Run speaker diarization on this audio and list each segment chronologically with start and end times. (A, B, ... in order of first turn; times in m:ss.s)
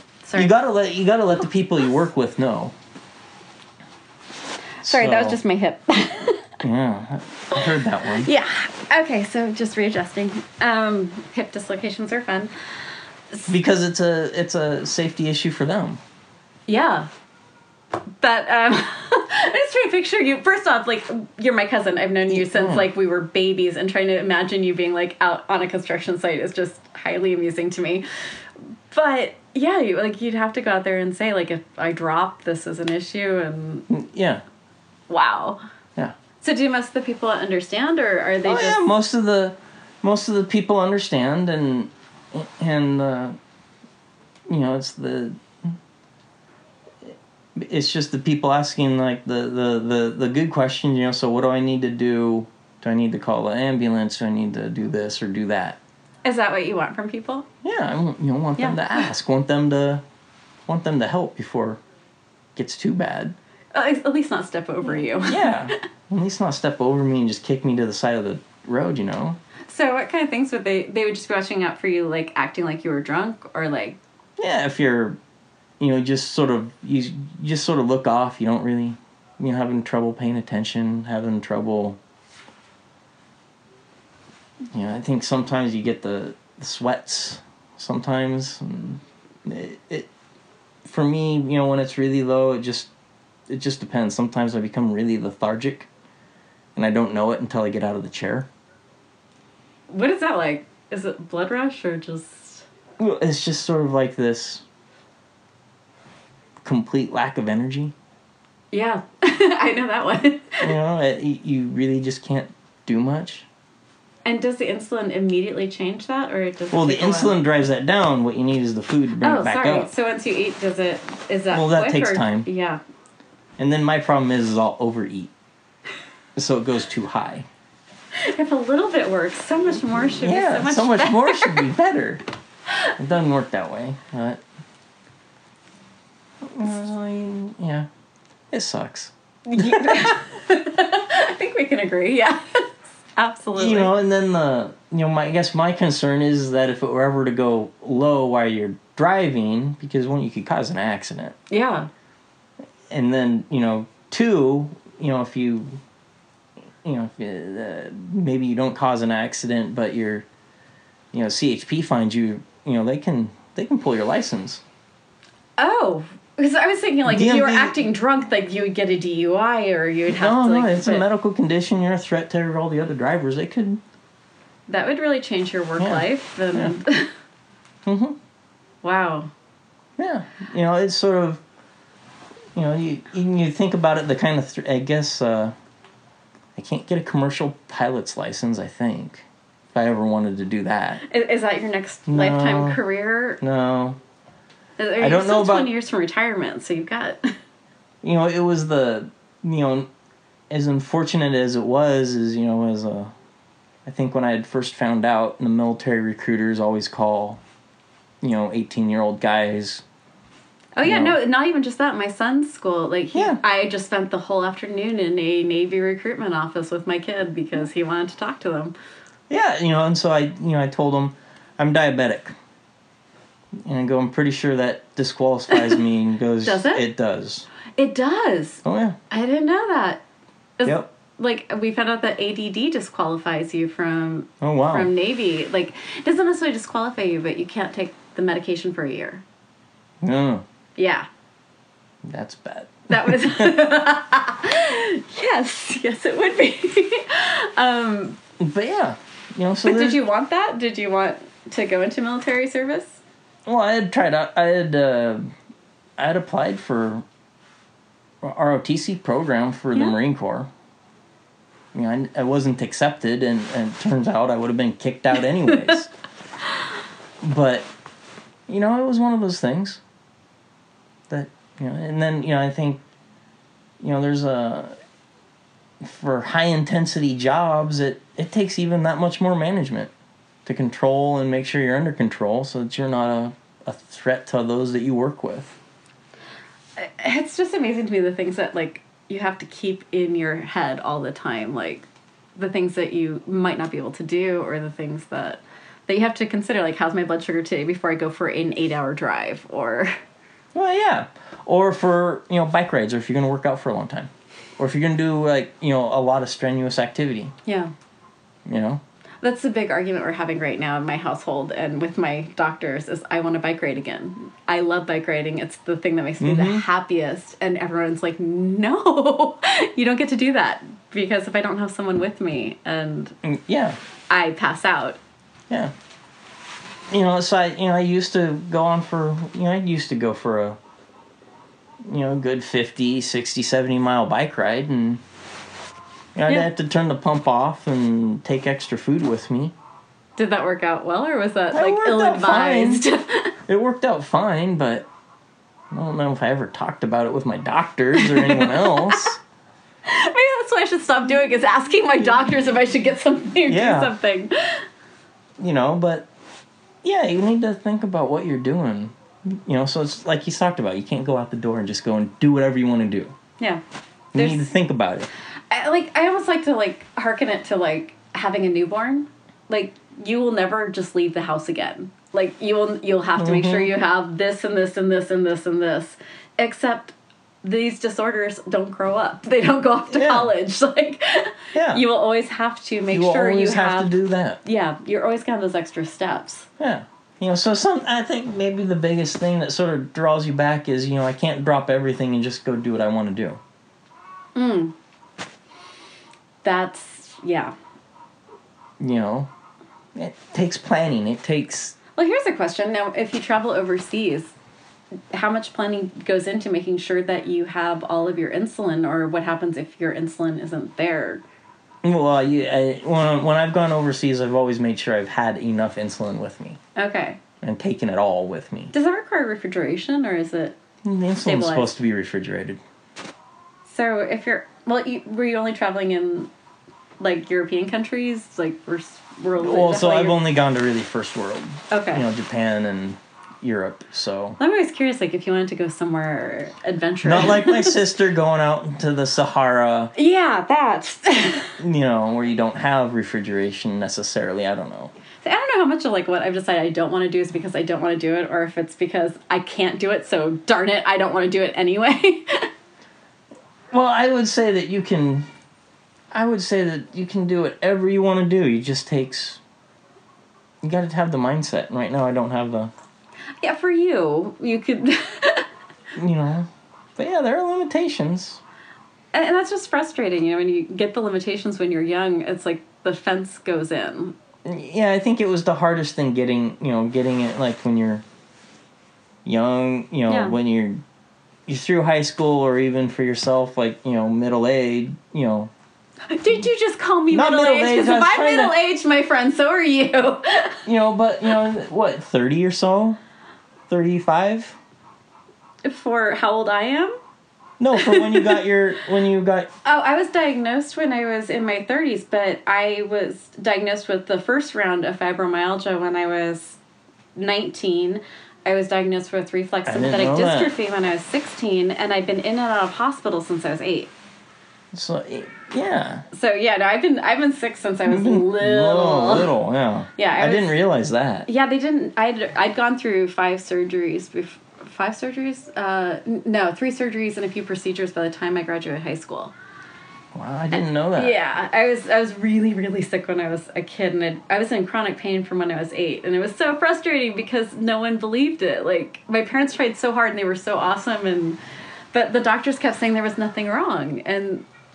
0:00.2-0:00.5 A
0:00.4-0:02.7 B
0:04.8-0:06.6 A
0:04.8-0:05.4 B
0:06.6-0:08.3 B
0:07.6-0:12.5 A
0:13.5-0:16.0 B
0:16.7-0:17.1 A
0:18.2-0:28.0 A
0:22.3-0:22.9 B
0:28.9-0:33.9 A
0:33.9-0:34.4 B
0:35.1-0:35.6 A
0:36.4-0:38.8 A
0:38.4-0:43.4 B
0:44.5-0:45.8 B
0:47.0-0:55.8 B
0:56.2-0:57.4 A
0:57.6-1:00.0 B
0:58.6-0:59.0 A
1:00.7-1:01.8 B
1:02.5-1:03.3 B
1:03.7-1:05.7 A
1:04.9-1:09.4 B
1:09.7-1:14.0 A
1:14.4-1:15.2 B
1:15.8-1:22.0 B
1:24.7-1:30.1 B
1:30.8-1:32.9 B
1:33.5-1:35.9 B
1:36.7-1:38.5 B
1:39.9-1:42.6 A
1:43.0-1:44.6 B
1:46.6-1:47.9 B
1:48.7-1:50.7 A
1:50.6-1:53.5 B
1:54.2-1:57.4 A
1:56.7-1:59.9 B
1:59.2-2:02.8 A
2:01.5-2:02.5 B
2:03.6-2:05.3 B
2:06.4-2:07.5 B
2:08.1-2:11.7 A
2:10.2-2:12.2 B
2:13.0-2:14.4 B
2:16.4-2:17.9 B
2:18.5-2:20.2 B
2:19.4-2:23.9 A
2:23.6-2:31.3 B
2:31.5-2:31.9 A
2:32.9-2:35.8 B
2:36.8-2:40.2 B
2:41.1-2:44.6 B
2:45.6-2:51.0 A
2:47.0-2:47.8 B
2:50.1-2:53.8 B
2:54.7-2:57.1 A
2:55.8-2:56.7 B
2:57.8-2:58.2 B
2:58.8-2:59.3 A
3:00.0-3:01.4 B
3:02.5-3:05.5 B
3:06.5-3:11.0 B
3:11.0-3:13.4 A
3:12.1-3:12.8 B
3:13.4-3:14.0 B
3:14.8-3:17.4 A
3:15.0-3:15.7 B
3:18.0-3:19.9 B
3:20.5-3:23.1 B
3:23.9-3:27.4 B
3:28.2-3:29.8 B
3:30.8-3:38.7 A
3:30.8-3:31.2 B
3:33.1-3:33.4 B
3:39.3-3:42.3 B
3:43.6-3:47.5 B
3:45.5-3:45.8 A
3:46.4-3:46.8 A
3:47.8-3:50.0 A
3:48.6-3:49.0 B
3:50.6-3:59.2 A
3:54.4-3:54.9 B
4:00.0-4:00.4 B
4:00.8-4:01.1 A
4:02.0-4:03.6 B
4:02.9-4:08.2 A
4:08.4-4:10.0 B
4:09.6-4:13.0 A
4:13.4-4:15.2 B
4:16.0-4:17.0 B
4:18.2-4:20.5 B
4:21.7-4:25.9 B
4:27.2-4:27.7 B
4:28.5-4:29.8 B
4:31.1-4:32.8 B
4:33.8-4:34.8 B
4:35.8-4:39.9 B
4:40.4-4:45.6 B
4:46.8-5:00.0 A
5:00.5-5:07.3 B
5:07.4-5:07.7 A
5:08.4-5:08.8 B
5:09.2-5:23.1 A
5:16.2-5:16.6 B
5:23.2-5:23.8 B
5:24.1-5:25.0 A
5:26.9-5:30.6 B
5:31.8-5:35.0 B
5:36.1-5:39.5 B
5:40.2-5:43.3 A
5:41.5-5:42.8 B
5:43.5-5:44.9 B
5:45.7-5:49.2 B
5:47.9-5:49.1 A
5:49.8-5:54.6 A
5:53.5-5:53.9 B
5:55.4-5:56.1 B
5:56.8-6:03.1 B
6:04.1-6:05.1 B
6:04.1-6:04.4 A
6:05.5-6:23.9 A
6:13.2-6:13.7 B
6:19.9-6:20.3 B
6:21.5-6:21.8 B
6:22.9-6:24.4 B
6:24.4-6:26.5 A
6:26.6-6:33.4 B
6:34.3-6:34.7 A
6:36.4-6:37.5 A
6:38.8-6:39.3 B
6:39.9-6:41.8 B
6:42.0-6:44.3 A
6:45.1-6:51.2 A
6:51.8-6:56.6 B
6:56.8-6:57.2 A
6:57.4-6:58.7 B
6:58.7-7:00.6 A
7:00.8-7:02.6 B
7:01.2-7:01.7 A
7:03.6-7:06.3 A
7:07.0-7:10.2 A
7:09.4-7:14.4 B
7:11.7-7:12.0 A
7:14.4-7:17.8 A
7:17.0-7:19.9 B
7:19.9-7:21.5 A
7:21.6-7:24.9 B
7:25.2-7:32.5 A
7:33.7-7:35.3 B
7:36.1-7:39.4 B
7:40.6-7:42.7 B
7:43.4-7:45.5 A
7:45.9-7:48.4 B
7:49.1-7:54.1 A
7:54.4-7:58.0 B
7:59.2-8:00.8 B
8:00.1-8:00.3 A
8:01.5-8:05.5 B
8:06.1-8:10.6 A
8:07.1-8:08.5 B
8:10.6-8:13.0 B
8:13.7-8:14.6 B
8:15.6-8:17.0 A
8:17.6-8:19.5 B
8:17.7-8:18.4 A
8:19.6-8:26.6 A
8:27.2-8:33.9 A
8:29.6-8:30.5 B
8:34.7-8:36.0 B
8:36.1-8:39.3 A
8:37.9-8:41.3 B
8:40.0-8:40.5 A
8:41.3-8:49.3 A
8:50.1-8:51.1 B
8:50.5-9:01.4 A
9:01.9-9:04.4 A